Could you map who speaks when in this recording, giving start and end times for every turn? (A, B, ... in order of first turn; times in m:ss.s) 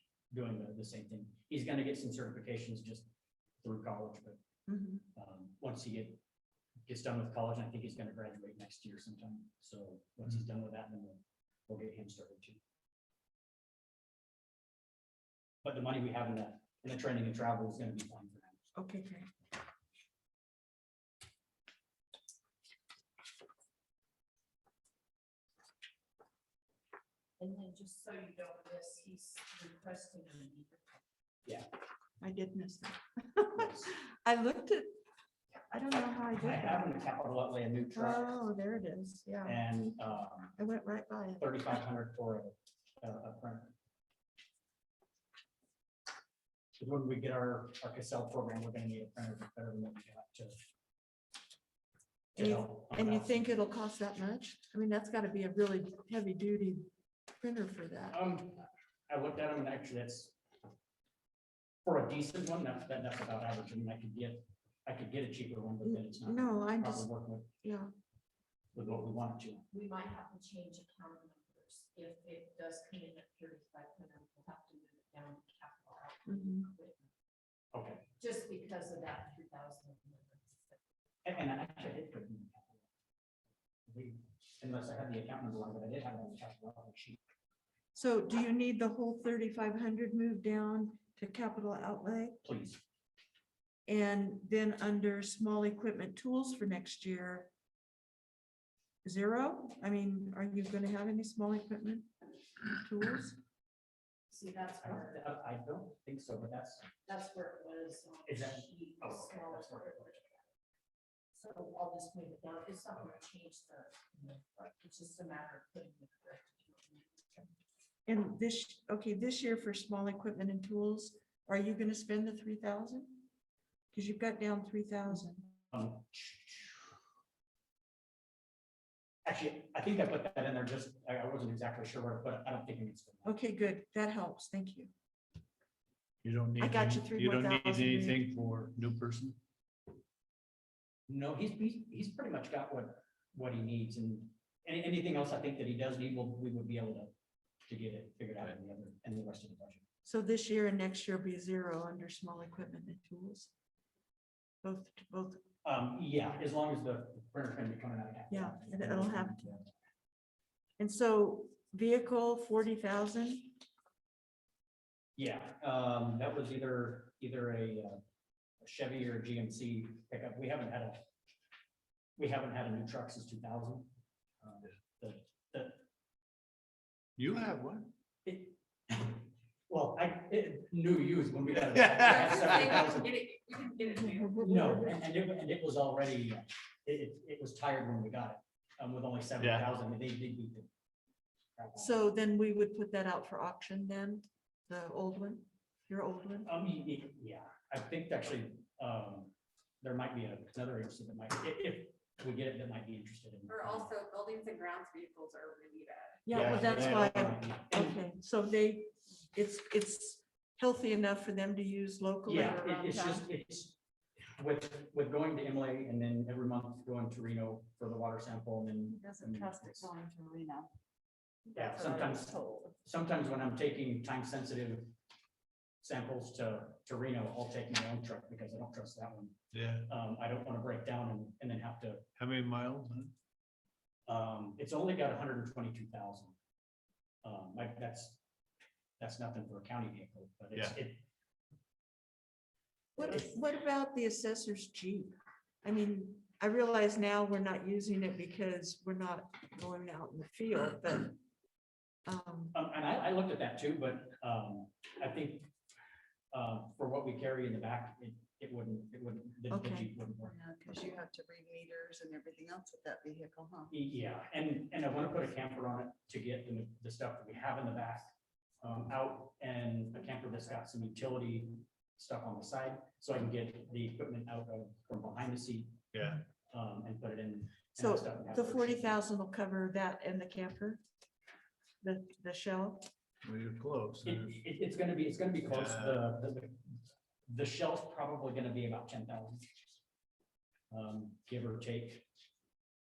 0:00.3-0:03.1 A
0:03.6-0:04.4 A
0:04.7-0:05.0 B
0:05.2-0:06.2 A
0:06.9-0:12.6 A
0:15.6-0:18.6 A
0:18.8-0:19.3 B
0:27.4-0:31.0 C
0:32.2-0:35.0 B
0:33.5-0:33.9 A
0:35.7-0:36.9 B
0:36.4-0:38.3 A
0:37.9-0:39.6 B
0:39.4-0:40.6 A
0:40.6-0:41.6 B
0:41.4-0:43.7 A
0:46.8-0:50.7 A
0:52.4-0:53.5 A
0:52.4-0:58.2 B
0:58.1-1:00.4 A
1:01.8-1:07.5 A
1:05.8-1:07.1 B
1:07.6-1:07.9 B
1:08.7-1:09.7 A
1:09.7-1:17.1 C
1:16.3-1:16.7 B
1:17.7-1:18.1 A
1:18.2-1:20.8 C
1:21.2-1:22.8 A
1:23.9-1:27.2 A
1:28.0-1:32.4 B
1:32.4-1:32.8 A
1:33.9-1:37.5 B
1:39.0-1:42.1 B
1:42.7-1:43.4 B
1:44.3-1:45.2 C
1:44.8-1:46.9 A
1:47.0-1:50.4 C
1:48.3-1:50.2 A
1:51.3-1:57.5 C
1:58.1-2:03.2 B
2:03.9-2:05.5 B
2:05.7-2:06.9 A
2:09.2-2:13.3 A
2:13.2-2:14.9 B
2:16.2-2:19.4 D
2:16.6-2:18.2 B
2:21.1-2:27.1 A
2:27.7-2:29.8 A
2:30.0-2:33.5 B
2:34.6-2:35.4 B
2:35.6-2:39.7 A
2:38.3-2:39.5 B
2:40.8-2:43.6 B
2:45.2-2:48.0 A
2:48.6-2:51.0 A
2:52.2-2:53.9 A
2:54.4-2:55.8 A
2:57.2-2:57.9 D
2:58.2-3:03.1 A
3:01.7-3:02.6 D
3:02.0-3:04.7 C
3:04.2-3:04.8 B
3:04.4-3:10.7 A
3:11.6-3:12.0 A
3:11.8-3:16.5 B
3:16.5-3:23.9 A
3:23.5-3:26.3 C
3:26.3-3:33.3 B
3:26.3-3:27.3 D
3:26.3-3:28.0 A
3:32.3-3:33.8 A
3:34.3-3:39.9 A
3:39.1-3:40.7 B
3:41.5-3:45.0 A
3:41.7-3:42.7 B
3:45.8-3:52.0 A
3:49.5-3:49.9 D
3:52.2-3:53.1 D
3:54.1-3:56.4 A
3:57.2-3:58.2 A
3:59.0-4:01.0 A
4:03.0-4:11.2 B
4:12.1-4:12.6 B
4:12.5-4:15.5 A
4:16.3-4:20.3 A
4:19.5-4:19.9 B
4:20.2-4:23.7 E
4:23.7-4:39.0 A
4:35.9-4:36.2 D
4:37.8-4:40.8 B
4:41.8-4:42.9 B
4:43.2-4:44.4 D
4:44.0-4:49.5 A
4:45.5-4:46.0 D
4:50.7-4:52.0 A